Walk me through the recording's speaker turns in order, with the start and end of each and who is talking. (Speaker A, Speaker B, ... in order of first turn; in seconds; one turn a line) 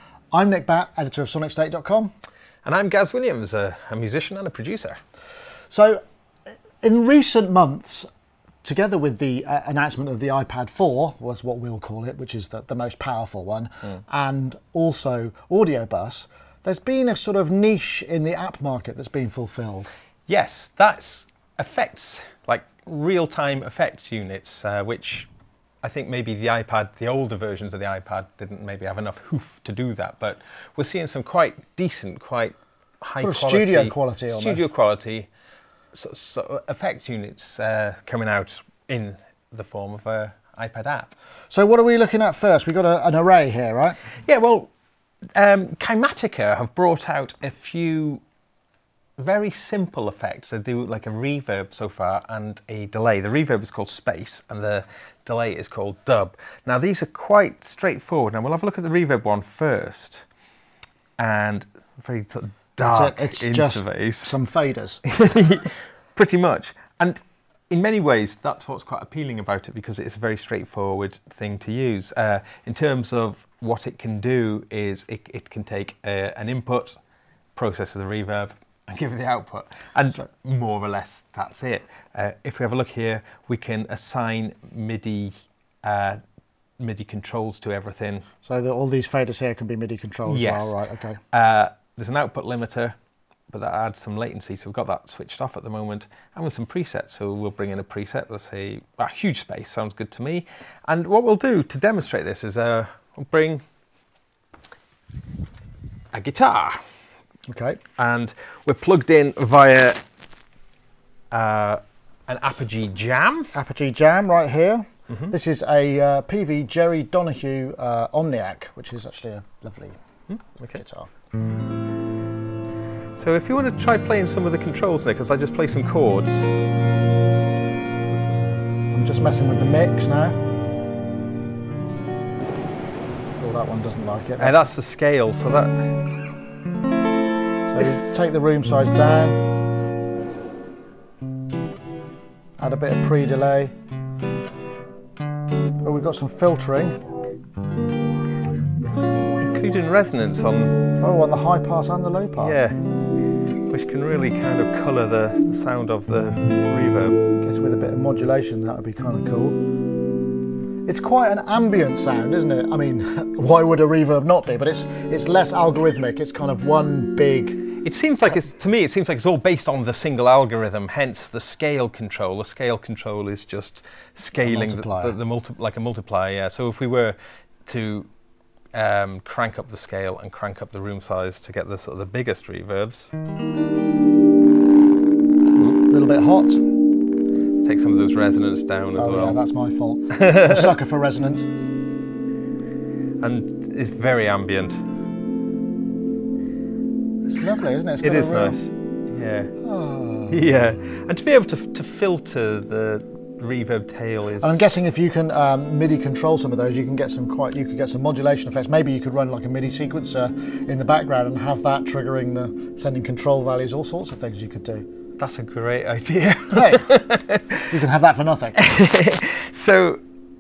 Speaker A: 0.3-2.1
Speaker B: 2.6-5.0
Speaker A: 5.7-6.0
Speaker A: 6.8-8.1
Speaker A: 8.6-19.9
Speaker B: 20.3-25.3
Speaker B: 25.8-35.3
Speaker A: 33.2-34.7
Speaker B: 35.9-41.1
Speaker A: 41.5-44.0
Speaker B: 44.2-44.7
Speaker B: 45.3-48.2
Speaker B: 49.2-60.2
Speaker B: 61.2-64.3
Speaker A: 62.8-65.0
Speaker B: 65.0-77.0
Speaker B: 77.5-86.2
Speaker B: 86.8-88.2
Speaker A: 88.4-91.2
Speaker B: 90.3-90.8
Speaker B: 91.3-93.0
Speaker B: 93.5-103.6
Speaker B: 106.1-106.8
Speaker A: 107.5-107.8
Speaker B: 108.0-110.0
Speaker B: 111.3-113.5
Speaker A: 113.5-120.0
Speaker B: 120.3-120.8
Speaker A: 120.7-121.1
Speaker B: 123.2-126.5
Speaker B: 128.0-128.6
Speaker A: 128.9-130.4
Speaker A: 133.4-134.7
Speaker B: 134.4-135.9
Speaker A: 137.7-139.4
Speaker B: 137.8-138.2
Speaker A: 142.6-143.7
Speaker A: 145.8-147.0
Speaker B: 149.4-150.8
Speaker A: 151.0-152.6
Speaker B: 152.4-152.8
Speaker B: 153.7-157.2
Speaker A: 157.4-159.6
Speaker A: 160.8-167.7
Speaker B: 167.8-178.1
Speaker A: 174.4-175.2
Speaker B: 178.7-183.1
Speaker A: 185.8-186.7
Speaker B: 187.6-189.4
Speaker A: 188.9-191.5
Speaker B: 190.2-190.7
Speaker B: 193.2-194.8
Speaker A: 197.2-198.6
Speaker B: 198.0-199.5
Speaker A: 199.6-200.5
Speaker B: 200.3-204.7
Speaker A: 204.4-214.8
Speaker B: 215.2-217.8
Speaker A: 216.5-216.9
Speaker A: 217.7-218.6
Speaker B: 218.6-220.0